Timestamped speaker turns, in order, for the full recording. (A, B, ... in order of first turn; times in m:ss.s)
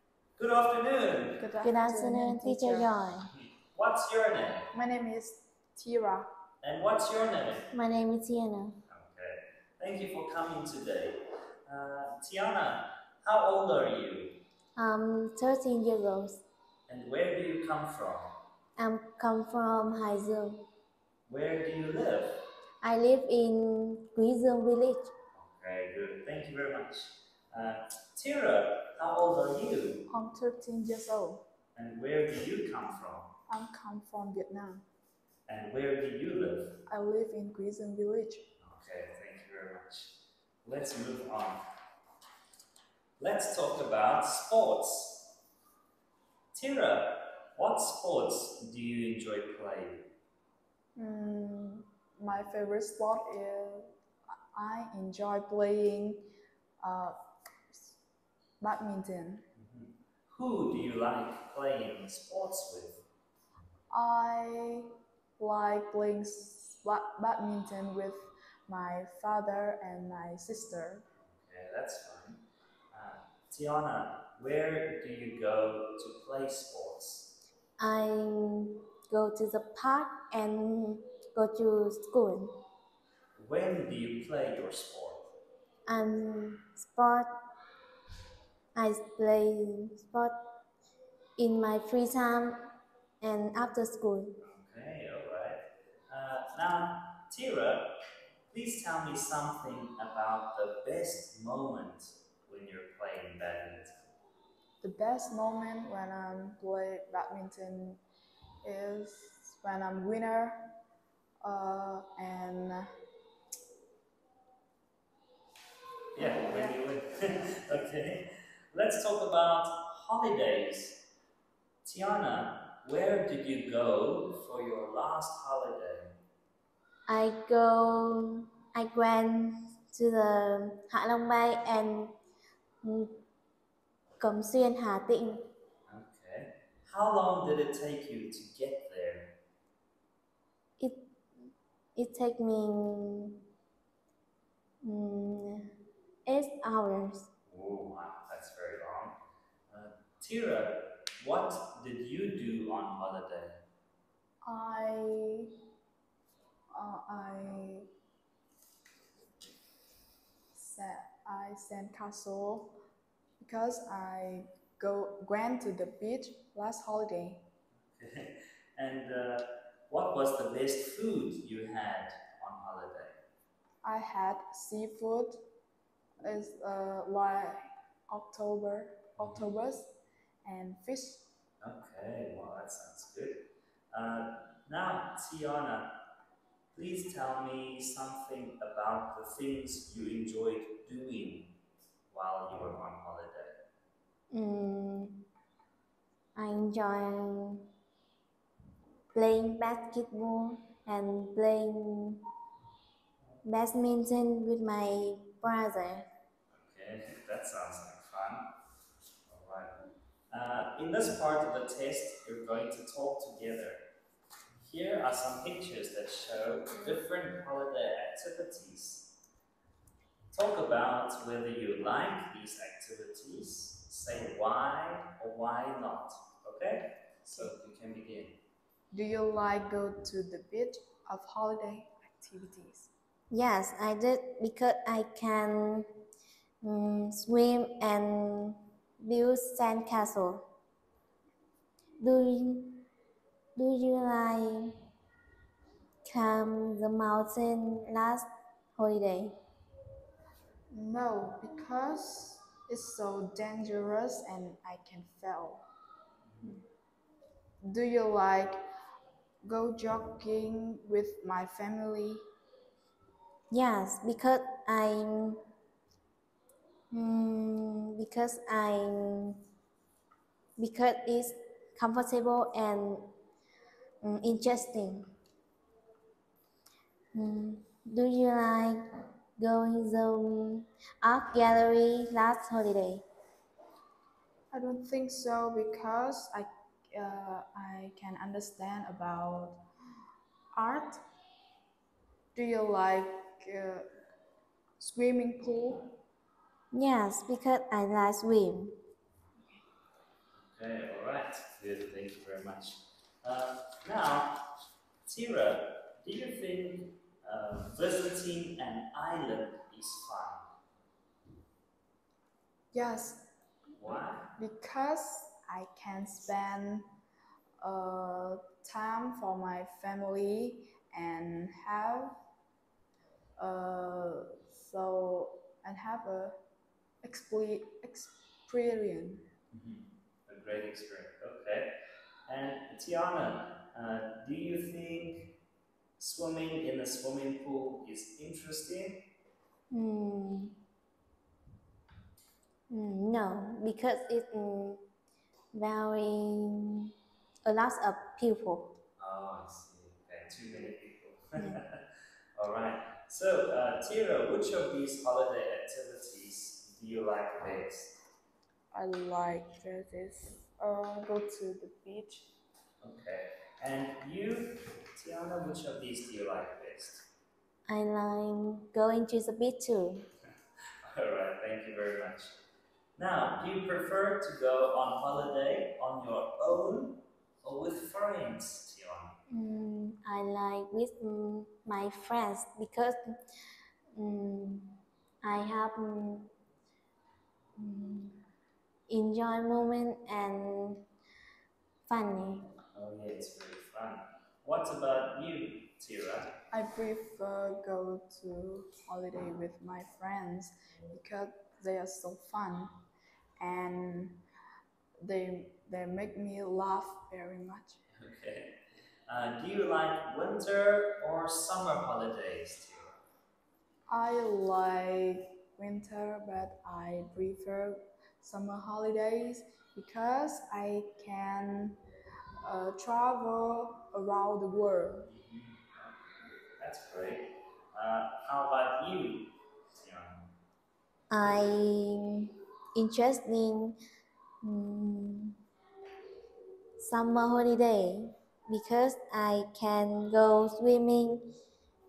0:00.4-0:01.5 A
0:01.4-0:02.9 B
0:01.6-0:03.3 C
0:03.4-0:04.7 A
0:04.7-0:06.3 B
0:06.6-0:07.7 A
0:07.7-0:08.8 C
0:08.9-0:14.4 A
0:14.8-0:16.4 C
0:16.9-0:18.3 A
0:18.8-0:20.7 C
0:21.3-0:22.4 A
0:22.8-0:25.1 C
0:25.4-0:30.1 A
0:30.1-0:31.5 B
0:31.8-0:33.3 A
0:33.5-0:34.9 B
0:35.5-0:36.8 A
0:36.9-0:38.5 B
0:38.6-0:41.6 A
0:43.2-0:45.3 A
0:46.5-0:50.1 A
0:51.0-0:53.9 B
0:54.5-0:58.0 B
0:58.6-0:59.5 B
0:59.6-1:03.0 A
1:03.9-1:11.0 B
1:11.3-1:17.3 A
1:17.8-1:22.6 C
1:23.4-1:25.3 A
1:25.9-1:27.3 C
1:28.8-1:30.4 C
1:31.4-1:32.6 C
1:33.2-1:34.4 C
1:34.4-1:37.9 A
1:38.5-1:44.1 A
1:44.8-1:48.0 B
1:48.6-1:50.8 B
1:51.4-1:52.9 B
1:56.1-2:01.0 A
2:01.8-2:06.2 A
2:07.1-2:12.1 C
2:12.8-2:13.2 C
2:14.2-2:15.5 C
2:15.9-2:19.4 A
2:20.8-2:21.1 C
2:22.0-2:23.4 C
2:24.8-2:25.7 C
2:26.3-2:27.3 C
2:27.5-2:29.2 A
2:29.7-2:33.6 A
2:34.4-2:35.5 B
2:36.7-2:37.9 B
2:40.6-2:42.8 B
2:43.4-2:47.4 B
2:47.9-2:53.2 A
2:53.8-2:55.5 B
2:56.2-3:01.3 B
2:59.2-2:59.4 A
3:01.6-3:06.0 A
3:06.7-3:11.5 A
3:12.1-3:13.6 A
3:14.3-3:15.3 C
3:16.4-3:17.7 C
3:19.1-3:22.2 C
3:23.4-3:26.1 C
3:26.5-3:28.5 A
3:29.3-3:29.7 A
3:30.3-3:33.8 A
3:34.6-3:39.2 A
3:40.3-3:48.4 A
3:48.9-3:52.9 B
3:53.3-3:55.9 C
3:56.6-4:00.5 C
4:02.0-4:02.9 C
4:03.6-4:04.8 C
4:06.1-4:08.2 C
4:08.8-4:09.4 C
4:10.7-4:15.7 B
4:16.3-4:16.6 A
4:17.6-4:18.6 B
4:19.4-4:22.2 B
4:23.5-4:25.4 C
4:26.9-4:29.4 C
4:30.6-4:33.1 C
4:34.0-4:35.1 C
4:37.1-4:38.8 C
4:39.4-4:43.1 C
4:44.5-4:49.6 B
4:50.5-4:51.0 B
4:52.4-4:53.9 B
4:54.8-4:55.9 B
4:56.7-4:58.8 C
5:00.4-5:04.4 A
5:05.1-5:10.5 A
5:12.7-5:13.3 B
5:13.8-5:14.3 A
5:14.4-5:16.9 B
5:17.6-5:22.2 B
5:23.4-5:26.4 B
5:27.0-5:29.3 B
5:29.5-5:31.7 A
5:32.3-5:35.4 A
5:36.0-5:39.0 A
5:39.7-5:40.5 C
5:42.7-5:44.8 C
5:45.5-5:46.9 C
5:47.4-5:48.8 C
5:49.0-5:51.8 A
5:52.4-5:58.0 A
5:58.7-6:02.3 B
6:02.8-6:07.1 A
6:07.7-6:10.1 C
6:10.8-6:12.4 A
6:13.0-6:19.2 A
6:19.3-6:23.0 C
6:24.0-6:26.3 C
6:27.6-6:28.2 C
6:28.9-6:30.9 C
6:31.9-6:32.5 C
6:32.7-6:36.3 A
6:36.5-6:42.8 B
6:43.4-6:44.2 B
6:45.0-6:47.8 B
6:47.9-6:52.9 A
6:53.9-7:01.8 B
7:02.4-7:05.1 B
7:05.1-7:10.3 A
7:11.1-7:13.8 C
7:14.4-7:15.4 C
7:16.8-7:21.3 C